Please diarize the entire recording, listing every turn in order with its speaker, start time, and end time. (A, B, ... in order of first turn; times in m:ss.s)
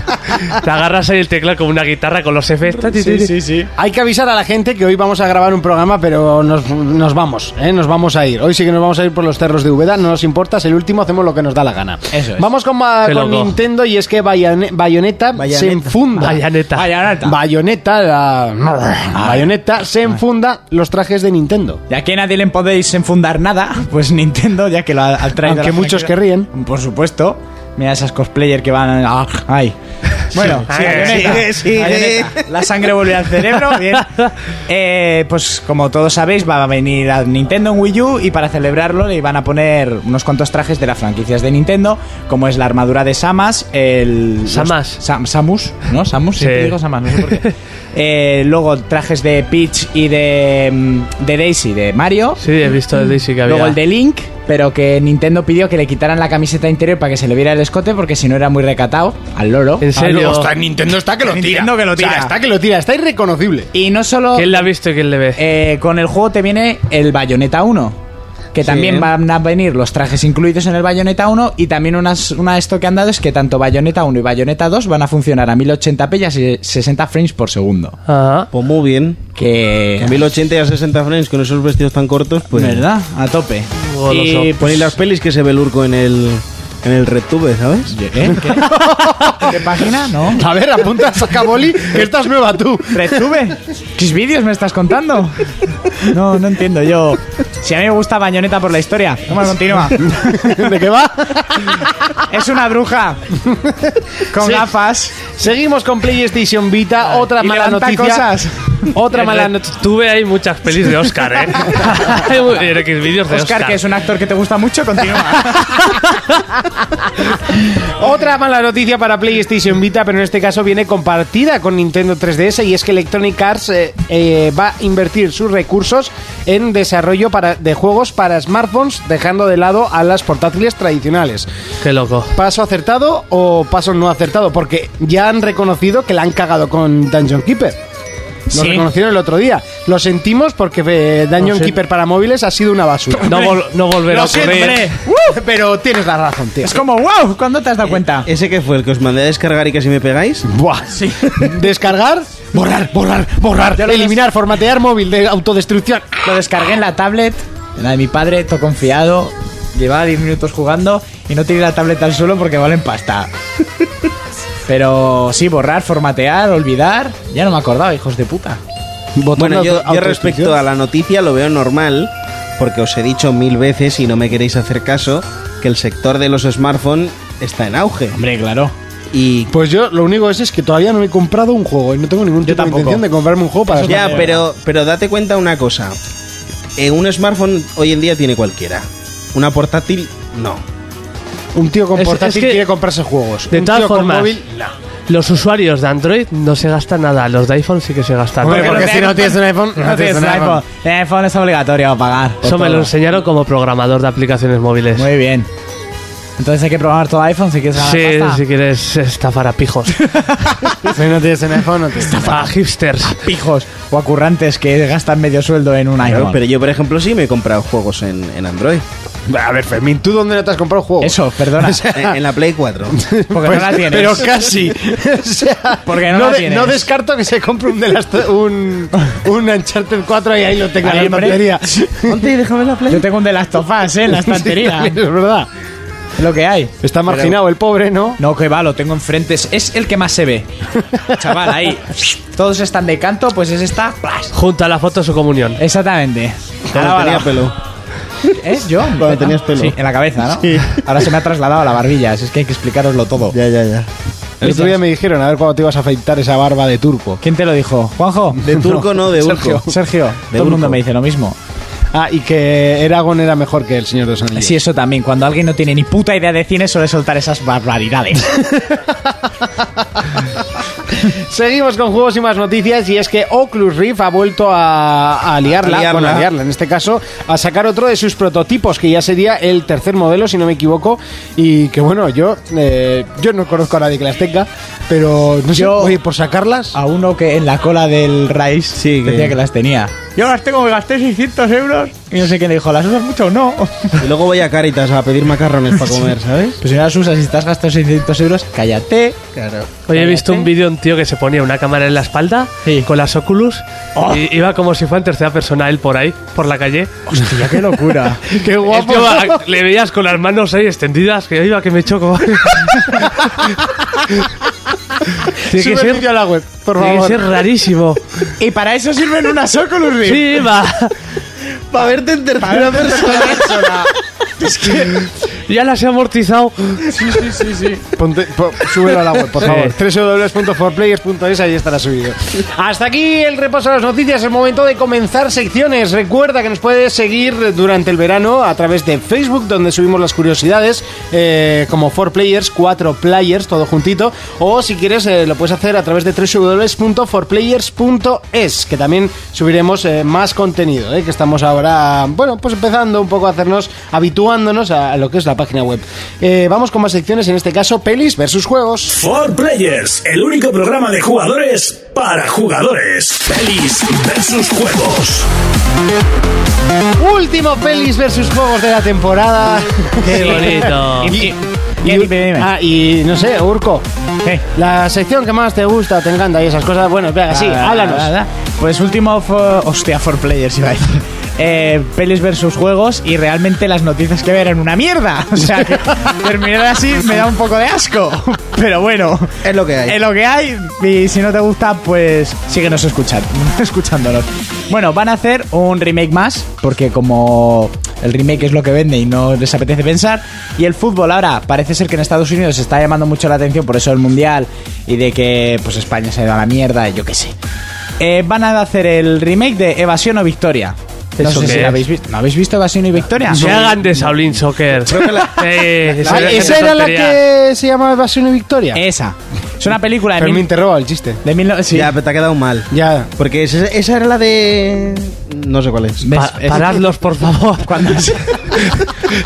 0:00.5-0:03.3 A
0:02.9-0:03.7 B
0:03.8-0:16.4 C
0:12.1-0:12.5 B
0:13.0-0:13.5 A
0:15.4-0:15.9 D
0:16.2-0:16.9 A
0:16.7-0:17.4 B
0:17.2-0:21.8 C
0:19.1-0:19.5 B
0:21.9-0:29.8 B
0:25.4-0:26.5 C
0:30.3-0:52.4 B
0:30.3-0:31.5 C
0:30.7-0:31.4 A
0:31.0-0:32.4 D
0:44.5-0:45.0 A
0:46.4-0:47.5 A
0:52.4-0:53.8 A
0:53.4-1:00.0 B
0:59.8-1:00.5 A
1:00.0-1:03.7 C
1:01.2-1:02.3 B
1:03.7-1:04.7 B
1:04.3-1:05.4 A
1:05.4-1:08.0 B
1:08.5-1:18.0 B
1:08.6-1:09.1 D
1:18.1-1:18.5 A
1:18.5-1:19.2 D
1:19.4-1:20.3 B
1:20.0-1:22.8 D
1:22.5-1:25.0 B
1:23.9-1:24.5 A
1:24.6-1:28.0 D
1:27.9-1:30.4 B
1:28.3-1:29.6 C
1:30.3-1:33.4 C
1:32.9-1:35.4 B
1:36.0-1:40.7 B
1:40.0-1:41.9 C
1:42.2-1:43.2 B
1:44.3-1:45.2 B
1:44.4-1:44.6 C
1:45.3-1:48.3 C
1:47.1-1:48.9 B
1:48.9-1:49.7 C
1:49.1-1:53.8 A
1:53.3-1:56.0 B
1:57.8-2:11.5 C
2:11.8-2:12.3 A
2:12.3-2:17.8 C
2:18.5-2:18.9 B
2:18.5-2:23.5 C
2:23.2-2:24.9 A
2:23.2-2:25.4 B
2:24.1-2:26.8 C
2:26.6-2:28.3 B
2:28.0-2:30.4 D
2:30.4-2:36.4 C
2:30.9-2:31.5 B
2:33.7-2:34.2 B
2:36.2-2:43.3 B
2:44.7-2:48.6 B
2:49.2-2:50.6 C
2:49.4-2:58.2 D
2:58.1-2:58.7 B
2:59.1-2:59.5 D
2:59.5-3:04.3 C
3:02.4-3:03.0 B
3:03.7-3:04.5 B
3:03.8-3:05.9 D
3:06.8-3:10.6 D
3:11.5-3:14.7 C
3:12.0-3:12.6 A
3:13.5-3:14.4 A
3:15.1-3:19.1 A
3:18.4-3:20.6 C
3:18.4-3:22.9 B
3:22.4-3:25.1 A
3:24.9-3:25.5 B
3:26.4-3:28.4 B
3:27.8-3:30.0 A
3:30.0-3:30.7 B
3:30.8-3:32.4 C
3:32.0-3:32.5 B
3:32.2-3:33.2 A
3:33.0-3:36.4 B
3:36.0-3:38.8 D
3:39.3-3:42.2 C
3:41.0-3:41.8 B
3:41.9-3:43.0 D
3:42.9-3:52.2 C
3:43.3-3:44.3 B
3:45.8-3:46.9 B
3:50.8-3:51.5 B
3:52.0-3:53.0 D
3:52.9-3:55.0 B
3:54.2-3:55.5 C
3:56.2-3:57.4 B
3:56.8-3:58.2 C
3:58.2-4:00.5 B
4:01.1-4:04.3 B
4:04.3-4:05.6 A
4:05.6-4:07.4 B
4:06.7-4:07.5 D
4:08.3-4:13.3 B
4:09.0-4:09.7 D
4:10.4-4:10.8 D
4:13.3-4:13.9 D
4:14.4-4:17.2 C
4:14.4-4:14.8 B
4:17.2-4:18.5 B
4:18.4-4:19.6 C
4:18.4-4:19.7 D
4:19.5-4:21.4 B
4:20.3-4:20.8 D
4:21.9-4:24.5 C
4:24.3-4:28.4 B
4:31.0-4:46.8 C
4:35.6-4:36.3 D
4:45.5-4:46.0 B
4:46.7-4:54.1 B
4:48.8-4:49.3 D
4:54.0-4:56.6 D
4:56.6-4:59.2 B
4:59.4-4:59.7 D
4:59.9-5:06.9 A
4:59.9-5:00.5 B
5:04.0-5:04.2 B
5:07.1-5:08.2 B
5:08.3-5:09.4 C
5:08.6-5:13.1 A
5:15.5-5:16.1 A
5:15.5-5:17.3 C
5:16.8-5:18.0 A
5:18.4-5:20.5 B
5:20.0-5:20.9 A
5:21.7-5:23.9 D
5:22.4-5:23.8 B
5:24.4-5:25.0 B
5:24.7-5:26.8 A
5:26.9-5:27.8 B
5:28.0-5:59.0 C
5:29.4-5:29.7 A
5:58.9-6:05.3 E
6:07.0-6:13.8 C
6:10.0-6:11.2 A
6:10.0-6:12.5 B
6:14.5-6:18.1 C
6:17.3-6:47.3 B
6:29.4-6:30.0 D
6:48.0-6:53.8 B
6:51.2-6:51.8 A
6:53.3-6:57.2 A
6:53.3-6:53.8 C
6:54.8-6:55.4 D
6:56.0-6:56.5 B
6:56.0-6:56.5 D
6:56.1-6:58.8 C
6:58.7-7:00.5 B
7:00.2-7:01.2 C
7:01.2-7:01.9 B
7:01.7-7:06.1 D
7:02.7-7:03.1 C
7:06.0-7:06.8 B
7:06.1-7:07.8 A
7:07.6-7:08.8 B